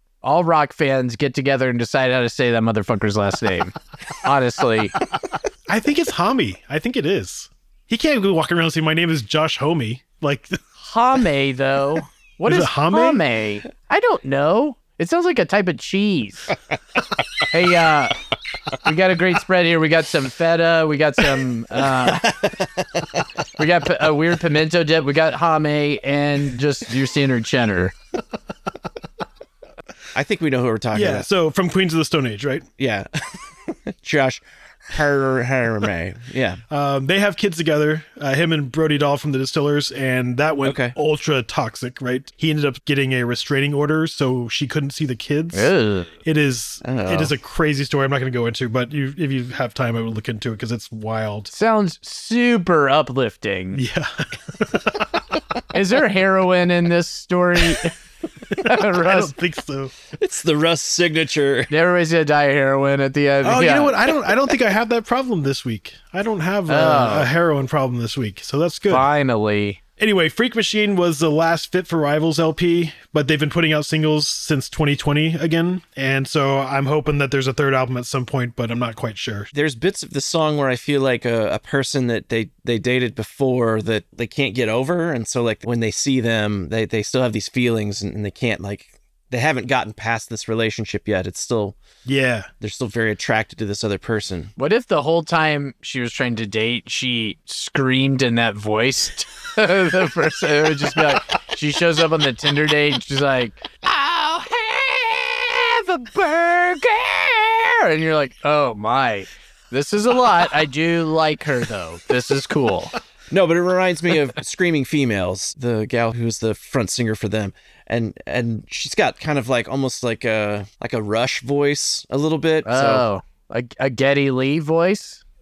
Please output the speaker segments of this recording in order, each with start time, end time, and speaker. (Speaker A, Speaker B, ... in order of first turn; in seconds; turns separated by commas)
Speaker A: 0.2-5.0, Speaker B: 5.7-10.6, Speaker A: 10.8-16.5, Speaker B: 12.5-13.2, Speaker A: 17.5-18.2, Speaker A: 18.8-22.4, Speaker C: 22.1-23.2, Speaker A: 23.6-27.9, Speaker C: 30.1-31.3, Speaker B: 30.9-32.7, Speaker C: 32.8-36.6, Speaker B: 36.7-45.7, Speaker C: 40.6-41.0, Speaker A: 45.5-46.1, Speaker B: 46.2-51.5, Speaker C: 46.8-47.3, Speaker A: 51.5-53.8, Speaker B: 53.7-55.2, Speaker A: 55.7-58.0, Speaker A: 58.6-59.3, Speaker B: 58.6-59.9, Speaker C: 60.2-61.7, Speaker A: 61.7-64.0, Speaker B: 63.4-69.1, Speaker A: 66.7-67.3, Speaker A: 68.9-69.8, Speaker B: 70.0-79.5, Speaker C: 79.5-91.8, Speaker B: 92.0-92.5, Speaker C: 92.6-94.5, Speaker A: 94.6-112.9, Speaker C: 113.3-123.0, Speaker A: 122.7-125.2